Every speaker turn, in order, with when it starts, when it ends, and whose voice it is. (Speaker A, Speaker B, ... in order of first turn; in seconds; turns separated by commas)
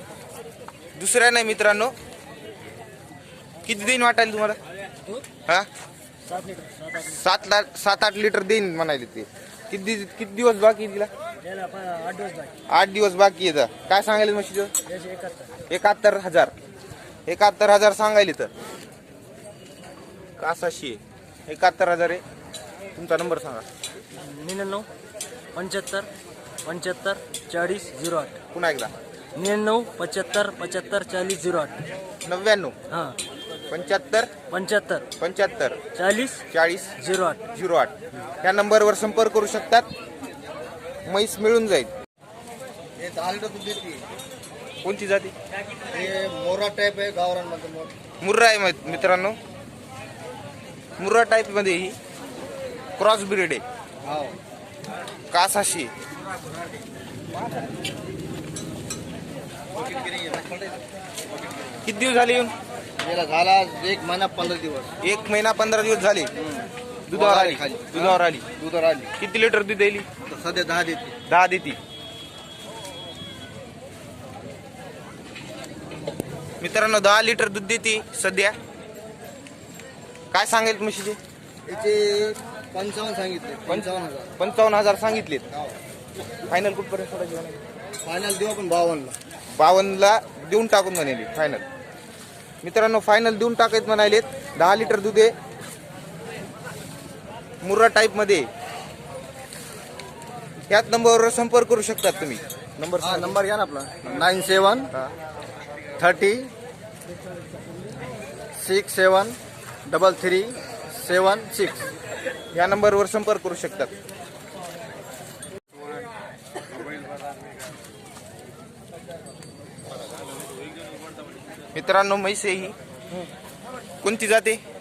Speaker A: 0.9-1.9, Speaker A: 3.6-4.6, Speaker B: 6.3-7.0, Speaker A: 7.0-11.1, Speaker B: 11.4-12.5, Speaker A: 12.7-14.7, Speaker B: 14.9-15.5, Speaker A: 15.7-16.5, Speaker A: 17.3-18.5, Speaker A: 20.4-22.2, Speaker A: 22.9-23.6, Speaker B: 24.1-24.9, Speaker B: 25.5-26.1, Speaker B: 26.6-28.4, Speaker A: 28.5-28.9, Speaker B: 29.4-31.8, Speaker A: 32.2-32.8, Speaker A: 33.7-34.3, Speaker B: 34.5-35.0, Speaker A: 35.2-35.8, Speaker B: 35.9-36.4, Speaker A: 36.5-37.0, Speaker B: 37.0-37.4, Speaker A: 37.5-39.9, Speaker A: 41.0-41.9, Speaker C: 43.0-44.0, Speaker A: 44.8-45.3, Speaker C: 45.9-47.9, Speaker A: 48.2-49.4, Speaker A: 51.0-52.0, Speaker A: 53.0-53.6, Speaker C: 54.0-54.4, Speaker A: 55.3-55.9, Speaker C: 59.9-60.7, Speaker A: 61.8-62.5, Speaker C: 63.0-64.9, Speaker A: 65.0-66.3, Speaker C: 66.6-69.1, Speaker A: 67.1-68.5, Speaker A: 69.2-70.1, Speaker C: 70.2-71.2, Speaker A: 71.2-71.8, Speaker A: 76.6-78.5, Speaker A: 80.3-81.2, Speaker C: 81.7-84.3, Speaker A: 83.7-85.4, Speaker A: 86.5-87.6, Speaker C: 88.0-89.2, Speaker A: 89.5-91.6, Speaker A: 92.6-95.3, Speaker A: 97.6-98.5, Speaker A: 100.7-103.4, Speaker C: 103.0-104.9, Speaker C: 106.0-106.5, Speaker C: 108.6-111.9, Speaker A: 112.5-113.9, Speaker A: 121.7-122.8, Speaker A: 124.0-124.6